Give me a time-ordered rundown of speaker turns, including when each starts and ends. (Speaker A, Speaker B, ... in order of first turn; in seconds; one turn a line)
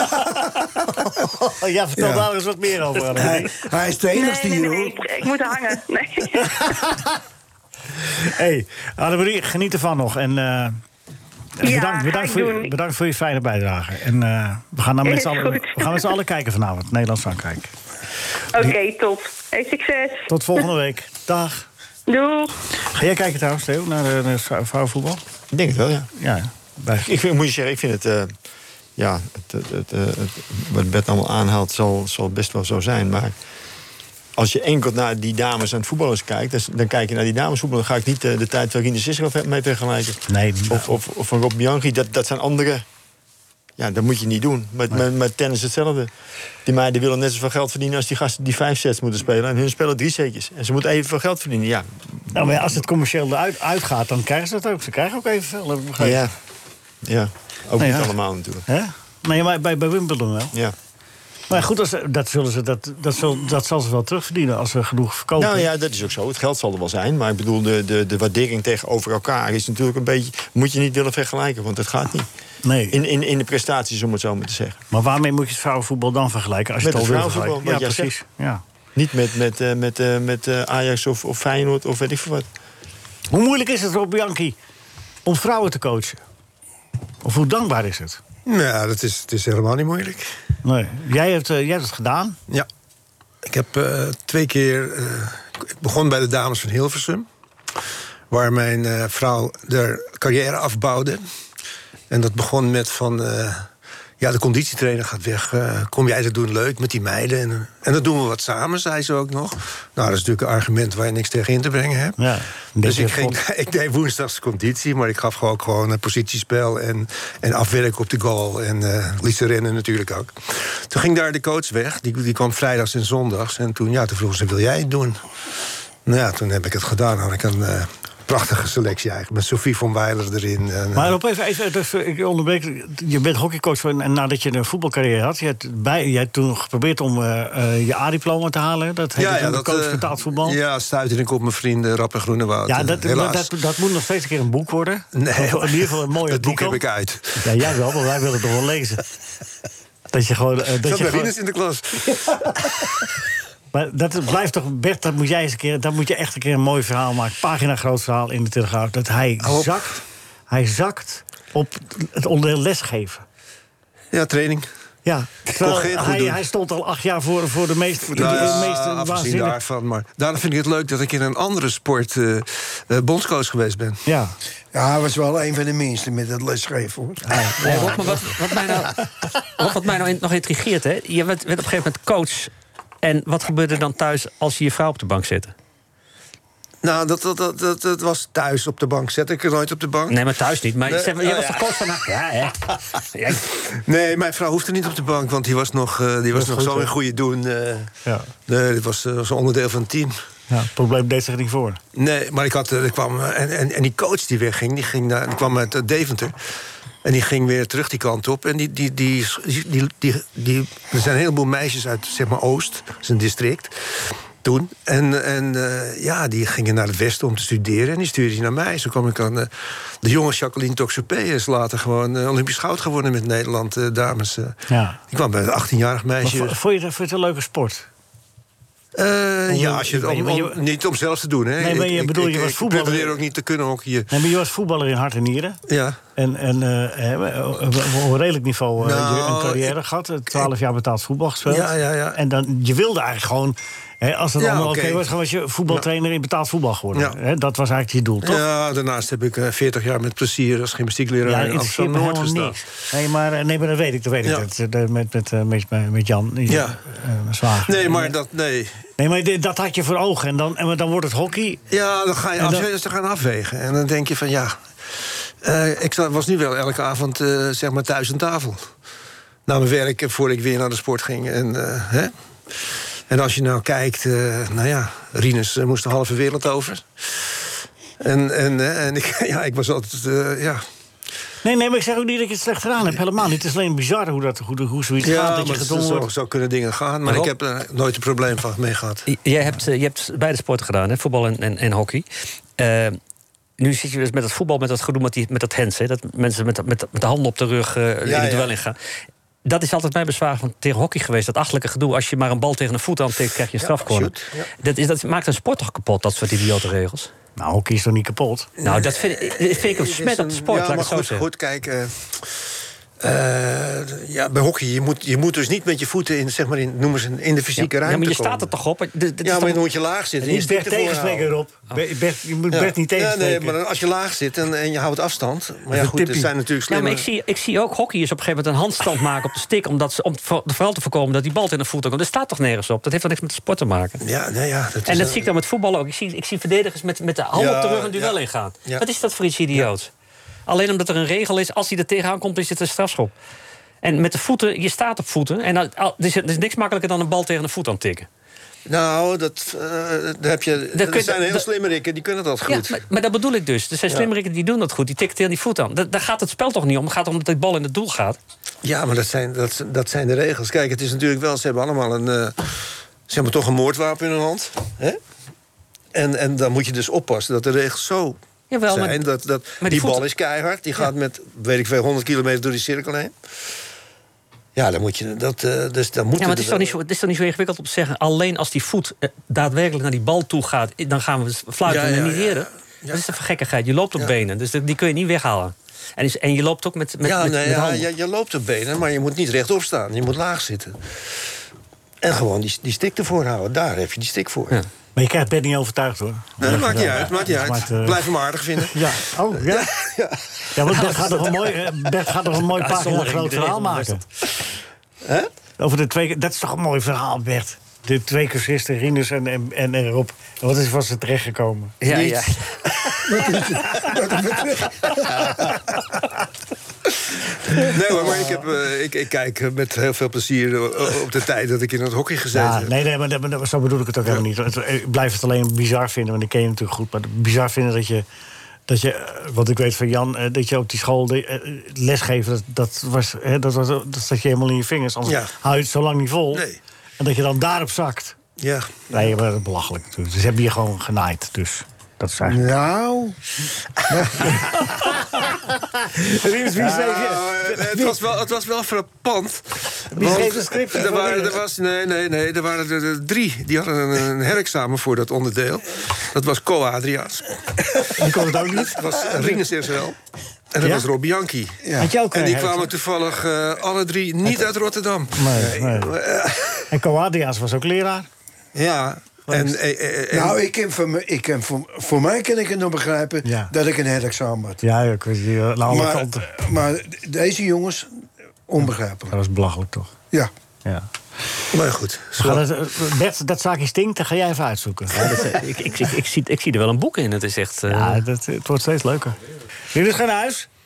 Speaker A: 1.1-3.5
Speaker B: 2.0-2.3
Speaker B: 3.1-5.1
Speaker C: 4.1-6.6
Speaker A: 6.4-7.1
Speaker A: 8.1-10.8
Speaker A: 11.6-17.7
Speaker C: 11.6-12.7
Speaker C: 15.1-16.1
Speaker C: 18.6-20.3
Speaker A: 20.3-21.7
Speaker C: 22.1-22.6
Speaker A: 22.9-25.2
Speaker D: 25.5-26.1
Speaker A: 26.2-27.1
Speaker D: 27.0-28.3
Speaker D: 29.0-33.3
Speaker D: 34.4-42.8
Speaker A: 40.3-40.9
Speaker D: 43.8-46.1
Speaker D: 46.6-52.3
Speaker A: 52.3-56.3
Speaker D: 56.0-56.3
Speaker D: 57.0-58.6
Speaker A: 57.8-58.1
Speaker A: 58.7-60.5
Speaker A: 61.5-65.7
Speaker D: 65.4-72.3
Speaker A: 72.6-73.0
Speaker D: 72.9-74.8
Speaker A: 74.9-78.6
Speaker D: 76.8-78.2
Speaker D: 79.0-82.5
Speaker A: 83.3-84.6
Speaker A: 85.2-86.2
Speaker A: 87.2-88.2
Speaker E: 88.5-90.3
Speaker A: 90.6-92.4
Speaker E: 93.4-97.3
Speaker E: 98.3-101.2
Speaker E: 102.1-103.7
Speaker E: 104.2-112.3
Speaker A: 112.2-113.4
Speaker E: 112.8-125.2
Speaker E: 126.1-131.2
Speaker A: 130.9-140.6
Speaker E: 139.2-143.5
Speaker A: 142.7-146.8
Speaker E: 145.1-147.5
Speaker A: 147.4-149.1
Speaker A: 150.1-151.3
Speaker E: 150.8-152.6
Speaker A: 153.7-163.2
Speaker E: 159.4-159.8
Speaker E: 164.1-164.7
Speaker A: 165.1-169.6
Speaker E: 165.5-166.4
Speaker B: 168.1-168.6
Speaker E: 168.1-174.1
Speaker A: 174.1-174.4
Speaker B: 174.7-178.0
Speaker A: 177.3-178.2
Speaker F: 177.6-185.6
Speaker E: 186.8-190.2
Speaker F: 190.1-193.5
Speaker E: 190.8-191.7
Speaker E: 193.7-197.9
Speaker A: 196.3-196.9
Speaker E: 198.5-200.1
Speaker A: 200.5-201.8
Speaker E: 201.9-206.3
Speaker E: 207.0-226.6
Speaker A: 224.7-225.0
Speaker A: 226.2-227.9
Speaker E: 228.9-234.1
Speaker A: 229.5-230.6
Speaker A: 231.6-233.2
Speaker A: 234.1-235.6
Speaker E: 235.7-236.0
Speaker A: 236.2-248.4
Speaker E: 238.8-239.8
Speaker E: 241.5-242.2
Speaker E: 244.4-245.1
Speaker E: 248.2-252.7
Speaker A: 251.2-258.2
Speaker E: 256.5-256.8
Speaker E: 257.6-258.8
Speaker A: 259.0-261.6
Speaker E: 261.7-268.7
Speaker A: 262.4-262.7
Speaker E: 269.5-277.5
Speaker E: 278.0-280.6
Speaker A: 281.4-286.1
Speaker E: 285.0-289.1
Speaker F: 287.1-287.3
Speaker F: 289.1-293.0
Speaker F: 293.6-298.8
Speaker E: 298.1-298.6
Speaker F: 299.4-307.1
Speaker E: 303.6-304.5
Speaker A: 307.4-308.5
Speaker E: 308.6-312.5
Speaker F: 308.6-311.3
Speaker E: 313.0-318.5
Speaker F: 317.6-319.6
Speaker E: 319.2-321.3
Speaker A: 320.2-323.6
Speaker E: 322.5-327.1
Speaker A: 325.7-326.3
Speaker F: 326.7-334.0
Speaker E: 334.0-335.3
Speaker F: 334.9-339.9
Speaker E: 337.3-338.9
Speaker F: 340.5-343.1
Speaker F: 343.8-348.1
Speaker E: 348.7-352.8
Speaker F: 350.7-351.5
Speaker F: 352.5-358.2
Speaker E: 358.6-365.0
Speaker E: 365.9-373.1
Speaker F: 368.5-369.1
Speaker F: 369.6-370.1
Speaker E: 374.6-376.8
Speaker F: 376.2-387.9
Speaker E: 381.7-383.0
Speaker E: 387.0-390.8
Speaker E: 392.0-394.6
Speaker A: 395.0-399.7
Speaker E: 396.4-400.9
Speaker A: 400.6-404.0
Speaker F: 400.8-401.2
Speaker F: 402.4-404.0
Speaker E: 405.0-405.3
Speaker A: 405.6-411.8
Speaker F: 411.8-413.0
Speaker E: 411.9-412.2
Speaker B: 413.1-415.0
Speaker E: 417.7-422.7
Speaker A: 422.3-428.1
Speaker A: 428.7-436.5
Speaker E: 435.1-435.3
Speaker E: 436.3-436.6
Speaker A: 437.0-438.2
Speaker E: 438.4-439.1
Speaker A: 438.9-442.5
Speaker B: 442.3-443.2
Speaker B: 443.9-444.4
Speaker A: 445.1-448.0
Speaker E: 446.6-460.0
Speaker A: 449.9-451.4
Speaker A: 458.0-459.4
Speaker E: 460.5-466.7
Speaker A: 460.6-460.9
Speaker B: 461.6-461.9
Speaker A: 461.8-462.7
Speaker A: 465.1-466.0
Speaker A: 466.7-468.1
Speaker E: 468.6-470.4
Speaker A: 469.3-469.6
Speaker B: 470.1-474.6
Speaker A: 473.2-473.5
Speaker A: 474.6-476.3
Speaker B: 475.7-477.9
Speaker B: 478.5-479.1
Speaker A: 479.1-479.9
Speaker E: 481.5-482.5
Speaker A: 482.2-485.2
Speaker F: 484.9-488.0
Speaker A: 487.7-489.2
Speaker A: 489.7-490.5